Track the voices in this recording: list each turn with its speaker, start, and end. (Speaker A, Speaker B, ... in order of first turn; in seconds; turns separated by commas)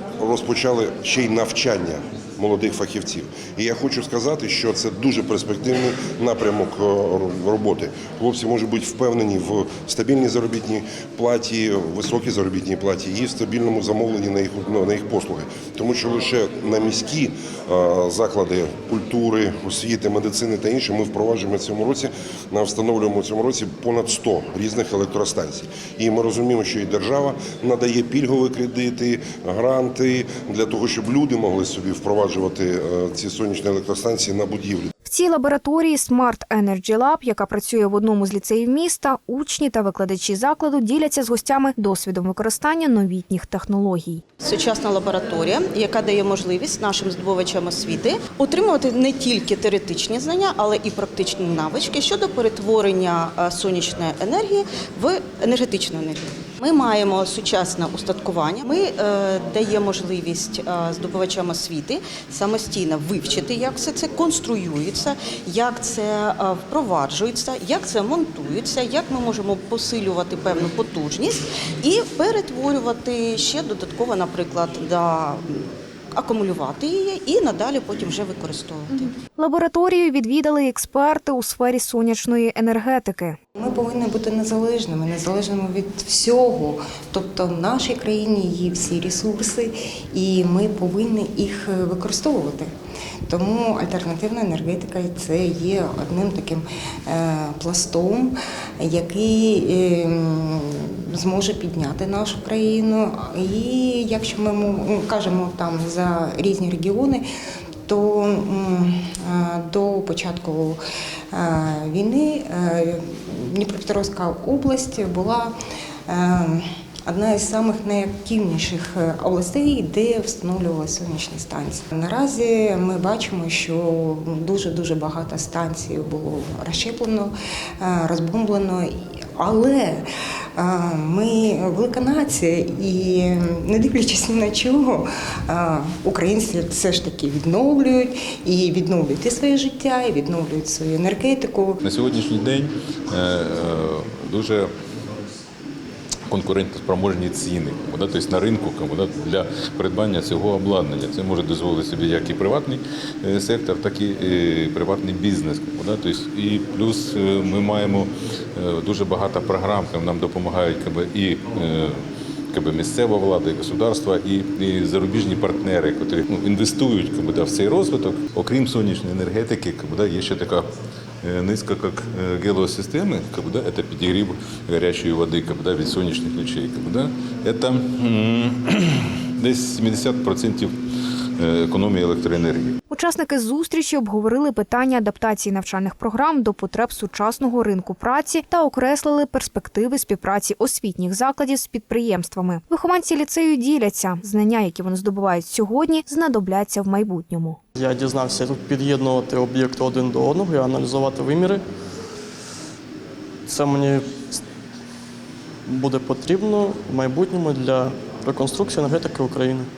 Speaker A: 0.2-34.9, Speaker B: 35.0-44.2, Speaker C: 44.4-75.4, Speaker C: 76.2-79.1, Speaker B: 79.3-83.4, Speaker D: 83.6-92.7, Speaker D: 93.3-107.2, Speaker D: 107.9-110.8, Speaker D: 111.3-115.5, Speaker D: 116.1-130.0, Speaker D: 130.6-141.8, Speaker E: 141.8-144.7, Speaker E: 146.3-162.0, Speaker E: 162.5-170.7, Speaker E: 171.2-180.7, Speaker E: 181.4-182.8, Speaker B: 182.9-197.6, Speaker F: 197.8-201.6, Speaker F: 203.5-204.4, Speaker F: 205.7-209.7